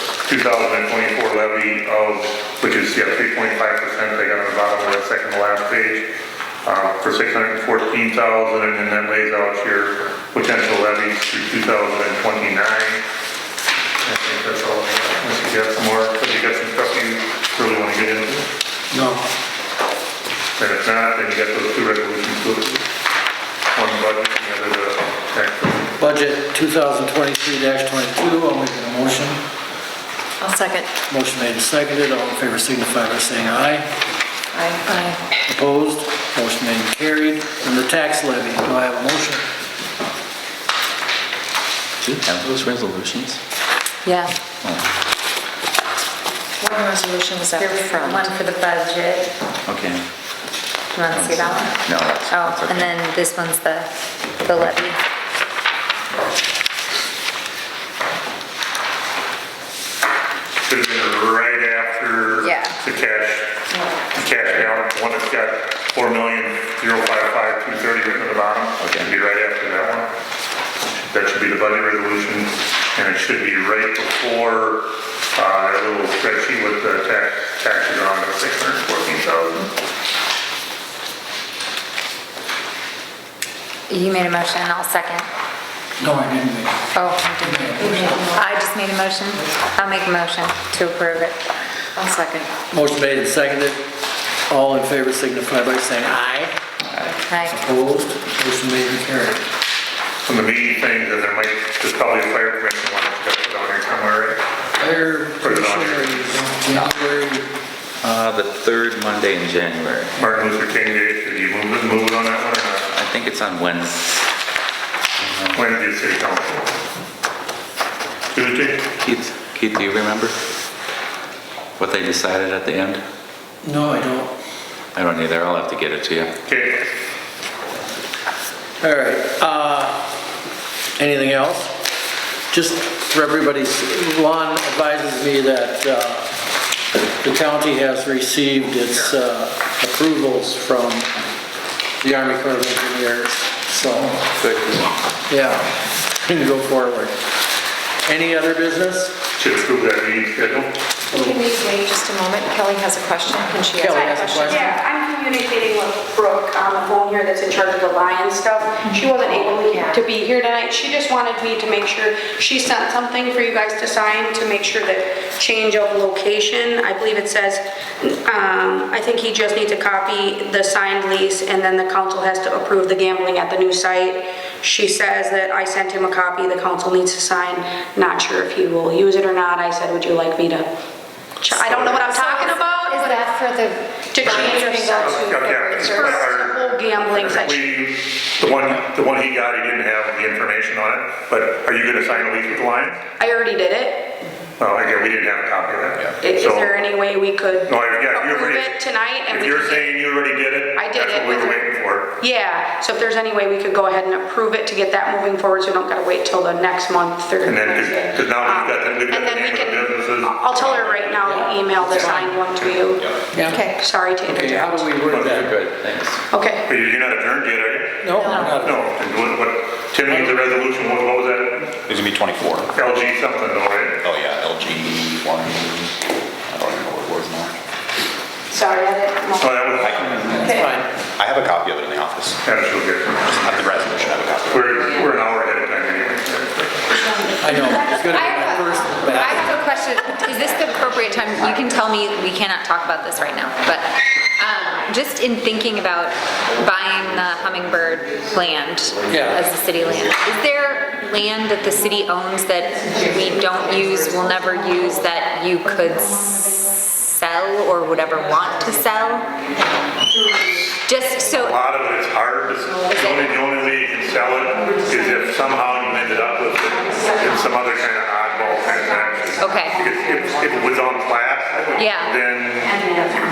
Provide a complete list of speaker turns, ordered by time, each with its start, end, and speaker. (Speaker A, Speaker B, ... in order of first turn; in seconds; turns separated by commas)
Speaker A: 0.2-6.1, Speaker A: 6.7-13.0, Speaker A: 14.0-18.5, Speaker B: 18.9-19.2, Speaker A: 20.6-22.9, Speaker A: 23.7-25.9, Speaker B: 26.0-29.4, Speaker C: 30.4-30.9, Speaker B: 31.1-33.9, Speaker C: 34.5-34.8, Speaker D: 34.9-35.2, Speaker B: 35.5-39.4, Speaker E: 42.0-43.4, Speaker D: 44.0-44.3, Speaker E: 44.6-44.9, Speaker C: 46.6-48.3, Speaker D: 47.5-49.3, Speaker E: 49.7-50.0, Speaker D: 51.0-53.9, Speaker E: 51.1-52.9, Speaker D: 54.4-55.0, Speaker A: 60.7-63.5, Speaker D: 62.4-62.8, Speaker A: 64.1-70.1, Speaker E: 68.8-69.1, Speaker A: 70.9-79.7, Speaker D: 83.9-85.3, Speaker B: 86.0-86.8, Speaker D: 86.9-91.4, Speaker B: 87.4-88.2, Speaker C: 87.8-88.1, Speaker C: 92.0-92.5, Speaker B: 92.7-93.8, Speaker B: 94.5-96.5, Speaker D: 97.0-97.6, Speaker B: 97.5-99.4, Speaker A: 100.2-104.4, Speaker B: 104.8-107.5, Speaker A: 105.4-106.5, Speaker E: 108.0-110.1, Speaker A: 110.2-112.9, Speaker E: 112.9-114.0, Speaker E: 115.2-115.6, Speaker A: 115.5-116.6, Speaker A: 118.3-118.9, Speaker E: 119.0-120.4, Speaker E: 121.8-123.0, Speaker B: 123.6-124.3, Speaker E: 124.9-126.3, Speaker A: 126.5-126.8, Speaker B: 128.8-130.0, Speaker B: 130.9-131.8, Speaker B: 132.5-136.3, Speaker B: 137.2-141.1, Speaker B: 142.0-144.1, Speaker E: 144.2-144.9, Speaker B: 145.3-147.2, Speaker B: 148.0-149.1, Speaker A: 149.4-150.7, Speaker C: 151.1-154.7, Speaker B: 153.8-154.7, Speaker F: 153.9-180.7, Speaker C: 159.1-160.0, Speaker F: 181.4-183.3, Speaker A: 181.5-182.1, Speaker D: 182.1-186.3, Speaker F: 184.1-187.7, Speaker A: 185.0-186.5, Speaker A: 187.1-193.0, Speaker F: 193.2-194.2, Speaker A: 194.6-196.7, Speaker F: 196.2-199.9, Speaker A: 197.7-202.2, Speaker F: 200.8-201.7, Speaker F: 202.2-214.9, Speaker A: 207.4-211.1, Speaker B: 211.3-212.3, Speaker B: 213.3-213.6, Speaker C: 213.5-213.8, Speaker B: 214.2-215.5, Speaker A: 215.1-215.4, Speaker E: 215.2-216.2, Speaker F: 216.3-216.7, Speaker A: 216.7-221.7, Speaker B: 218.0-218.8, Speaker G: 221.9-222.7, Speaker A: 222.7-224.0, Speaker G: 224.0-226.0, Speaker G: 226.5-227.6, Speaker F: 228.5-230.8, Speaker A: 229.4-230.0, Speaker G: 229.8-232.4, Speaker B: 230.6-230.8, Speaker A: 232.4-233.7, Speaker G: 233.4-234.9, Speaker A: 234.5-236.9, Speaker F: 237.1-237.8, Speaker B: 237.4-239.4, Speaker D: 238.1-259.3, Speaker B: 249.1-249.4, Speaker D: 260.9-261.6, Speaker A: 261.4-272.9, Speaker D: 269.4-269.8, Speaker D: 271.8-272.1